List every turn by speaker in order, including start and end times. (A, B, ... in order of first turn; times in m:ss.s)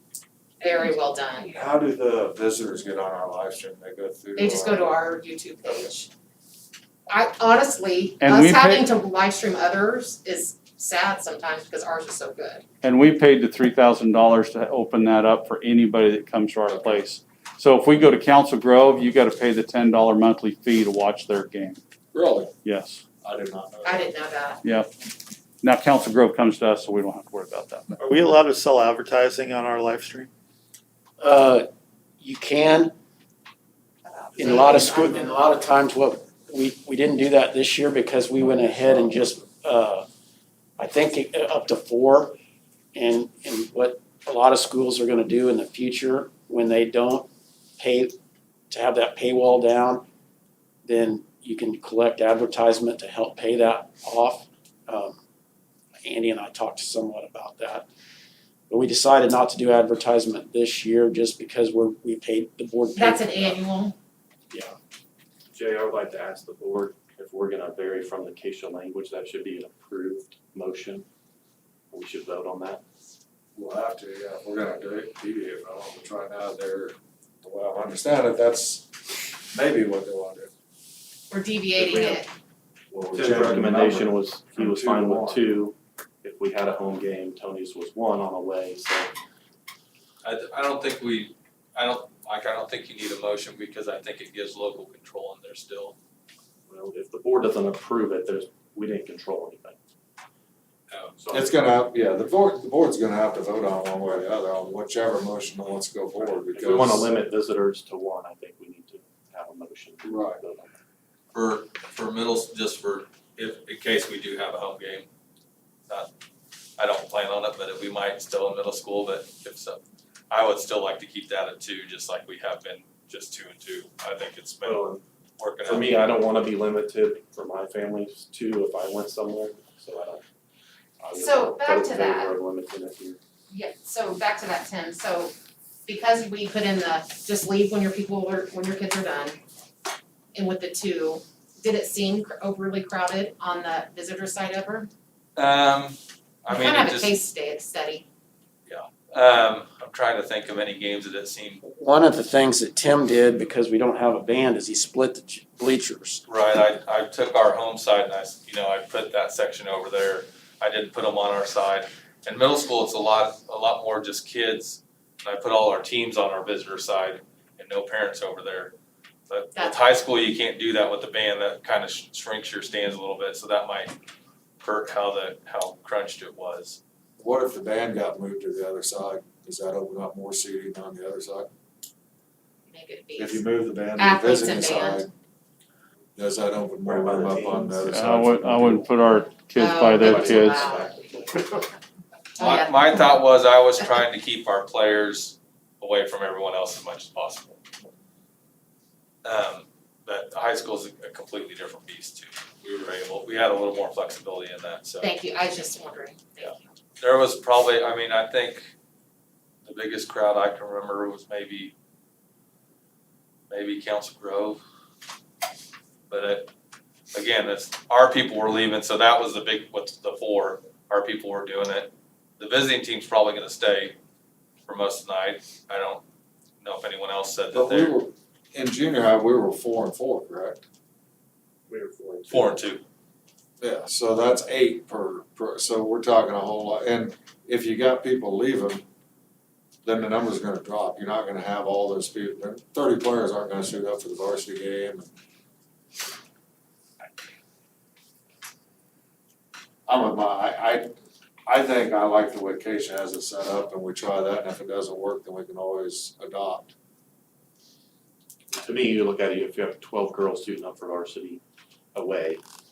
0:00.6-0:01.5 A
0:01.4-0:04.9 B
0:04.4-0:06.1 A
0:07.1-0:12.6 A
0:08.2-0:08.8 C
0:12.8-0:21.8 C
0:16.7-0:17.0 B
0:22.1-0:22.5 B
0:22.6-0:23.0 C
0:23.2-0:24.1 B
0:23.8-0:24.6 A
0:24.6-0:24.9 C
0:25.6-0:28.0 C
0:28.0-0:30.3 D
0:31.2-0:31.7 E
0:32.2-0:32.9 E
0:34.4-0:40.0 E
0:34.4-0:35.4 A
0:40.8-0:42.4 E
0:42.9-0:47.3 E
0:47.8-0:48.2 E
0:48.7-0:50.0 E
0:50.9-0:55.2 E
0:56.0-0:57.8 E
0:58.7-1:03.6 E
1:03.0-1:03.9 A
1:05.5-1:11.0 F
1:11.9-1:12.8 F
1:13.5-1:20.5 B
1:21.3-1:22.3 A
1:21.7-1:22.2 F
1:22.9-1:29.1 F
1:23.1-1:25.4 B
1:30.2-1:36.0 G
1:36.7-1:39.8 F
1:40.9-1:41.2 G
1:41.2-1:41.5 F
1:41.3-1:47.1 B
1:46.2-1:50.8 F
1:50.0-1:50.4 B
1:51.3-1:55.1 G
1:56.8-2:04.8 G
2:04.6-2:05.0 F
2:05.4-2:06.0 G
2:05.6-2:10.2 F
2:11.0-2:13.2 F
2:11.2-2:12.3 A
2:13.5-2:15.3 A
2:15.8-2:19.4 A
2:20.3-2:24.9 A
2:25.4-2:27.1 G
2:26.5-2:28.0 A
2:28.6-2:31.6 G
2:31.6-2:36.2 E
2:36.2-2:48.7 G
2:49.3-2:53.9 G
2:49.6-2:49.8 A
2:54.6-2:56.8 G
2:57.2-3:01.5 B
3:02.7-3:03.4 A
3:03.2-3:05.1 B
3:04.0-3:05.1 A
3:06.2-3:08.5 B
3:06.8-3:08.9 F
3:07.9-3:10.7 C
3:09.6-3:11.1 A
3:09.9-3:11.6 F
3:12.4-3:12.9 A
3:12.4-3:17.6 G
3:19.2-3:25.1 G
3:25.0-3:26.7 A
3:26.4-3:28.7 G
3:29.6-3:31.7 G
3:33.5-3:34.6 G
3:36.1-3:36.5 G
3:37.1-3:44.0 G
3:44.7-3:46.0 G
3:46.6-3:48.0 G
3:47.5-3:50.6 B
3:51.7-3:52.7 F
3:52.3-3:52.8 G
3:53.6-3:58.8 B
3:59.8-4:05.1 B
4:09.9-4:10.9 B
4:11.5-4:16.7 B
4:18.5-4:21.4 F
4:21.9-4:22.4 F